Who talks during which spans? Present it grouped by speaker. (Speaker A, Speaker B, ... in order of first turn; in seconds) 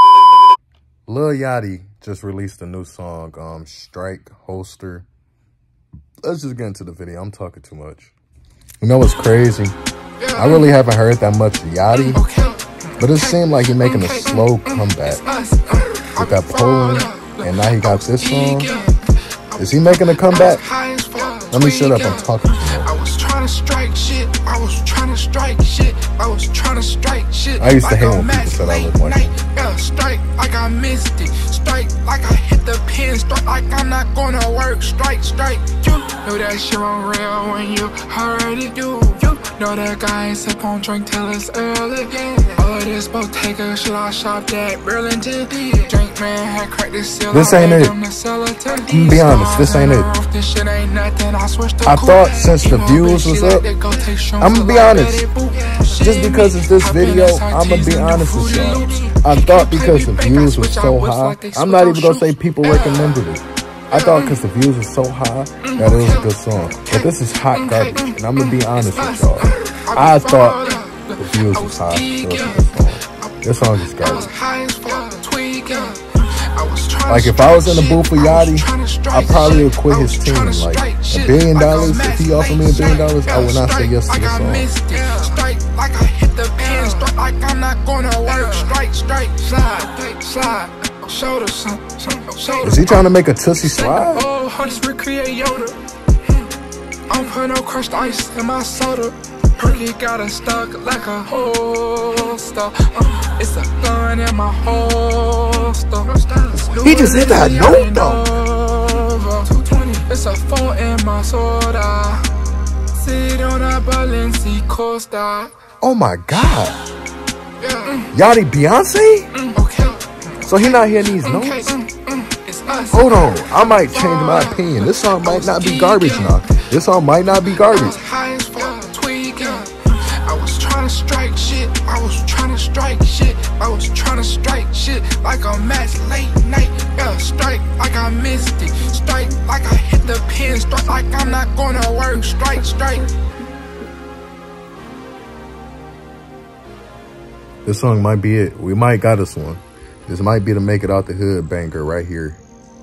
Speaker A: 1.1-5.0, 6.2-8.1, 8.8-9.7, 10.3-12.2, 13.0-15.2, 16.1-18.7, 19.6-20.6, 21.5-22.9, 27.6-29.3, 47.3-48.0, 48.7-50.1, 51.8-53.7, 54.4-55.3, 55.8-74.3, 77.1-84.7, 92.6-94.3, 106.8-108.4, 115.8-116.8, 118.1-119.3, 120.4-121.8, 122.9-128.0, 147.7-152.4
Speaker B: 10.2-10.7, 12.0-63.2, 63.9-64.4, 65.6-93.1, 93.7-95.8, 97.1-112.3, 112.9-115.5, 117.6-118.1, 119.4-126.6, 127.6-143.1